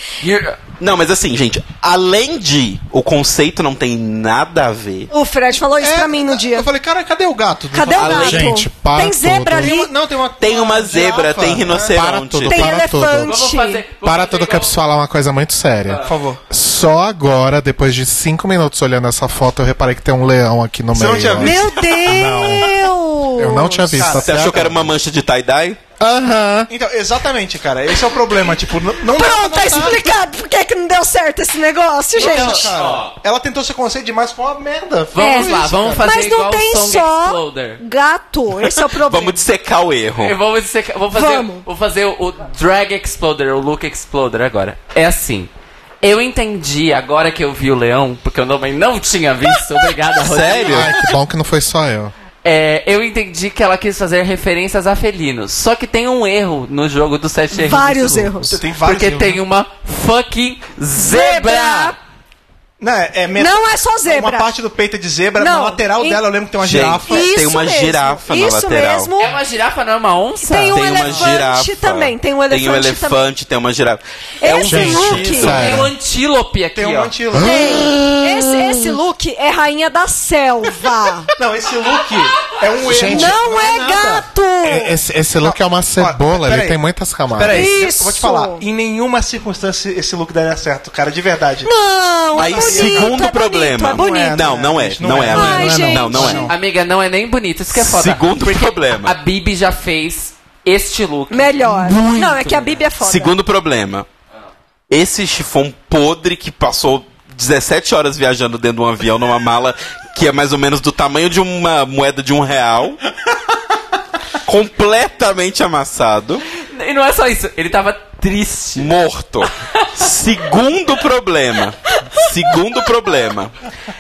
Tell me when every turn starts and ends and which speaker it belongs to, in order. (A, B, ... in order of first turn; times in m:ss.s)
0:00.2-0:00.6 A
0:00.8-0:05.1 B
0:05.1-0:06.7 C
0:05.8-0:08.5 D
0:07.7-0:09.9 C
0:08.0-0:08.4 B
0:08.2-0:09.8 E
0:09.6-0:12.0 D
0:10.4-0:12.8 B
0:11.9-0:13.4 E
0:12.5-0:13.8 C
0:13.2-0:14.8 A
0:14.0-0:24.9 E
0:15.9-0:16.1 A
0:16.0-0:16.4 D
0:20.9-0:21.8 D
0:21.4-0:24.1 C
0:23.9-0:24.5 D
0:24.1-0:25.8 B
0:26.0-0:26.7 E
0:26.7-0:30.1 D
0:29.1-0:32.7 C
0:32.2-0:33.2 A
0:32.2-0:36.1 D
0:35.1-0:37.8 A
0:35.2-0:39.4 C
0:38.9-0:40.4 B
0:40.2-0:45.5 A
0:41.1-0:41.6 C
0:46.0-0:50.9 A
0:50.2-0:51.0 B
0:50.7-0:52.1 E
0:52.4-1:02.0 A
0:57.5-0:58.6 C
0:58.4-0:59.4 D
1:01.0-1:02.0 C
1:02.8-1:07.3 D
1:03.4-1:04.5 C
1:05.4-1:06.2 C
1:06.6-1:09.1 B
1:07.1-1:09.4 C
1:09.2-1:10.9 A
1:10.4-1:13.2 C
1:10.7-1:15.8 B
1:11.0-1:11.3 D
1:14.4-1:15.7 C
1:14.6-1:15.9 E
1:15.5-1:17.2 A
1:16.8-1:17.7 D
1:17.3-1:18.5 E
1:17.3-1:21.3 C
1:21.4-1:24.3 D
1:22.8-1:23.4 E
1:23.0-1:24.9 C
1:24.6-1:27.7 E
1:25.4-1:26.8 D
1:27.3-1:31.7 D
1:27.5-1:28.6 C
1:31.6-1:34.5 C
1:32.3-1:36.5 B
1:32.4-1:33.2 D
1:33.9-1:36.6 D
1:35.1-1:36.5 C
1:36.4-1:42.8 A
1:37.7-1:39.2 B
1:41.3-1:43.3 C
1:43.0-1:44.1 B
1:44.9-1:53.0 B
1:54.4-1:56.4 B
1:56.6-1:58.9 A
1:58.8-2:03.5 B
1:59.5-1:59.9 A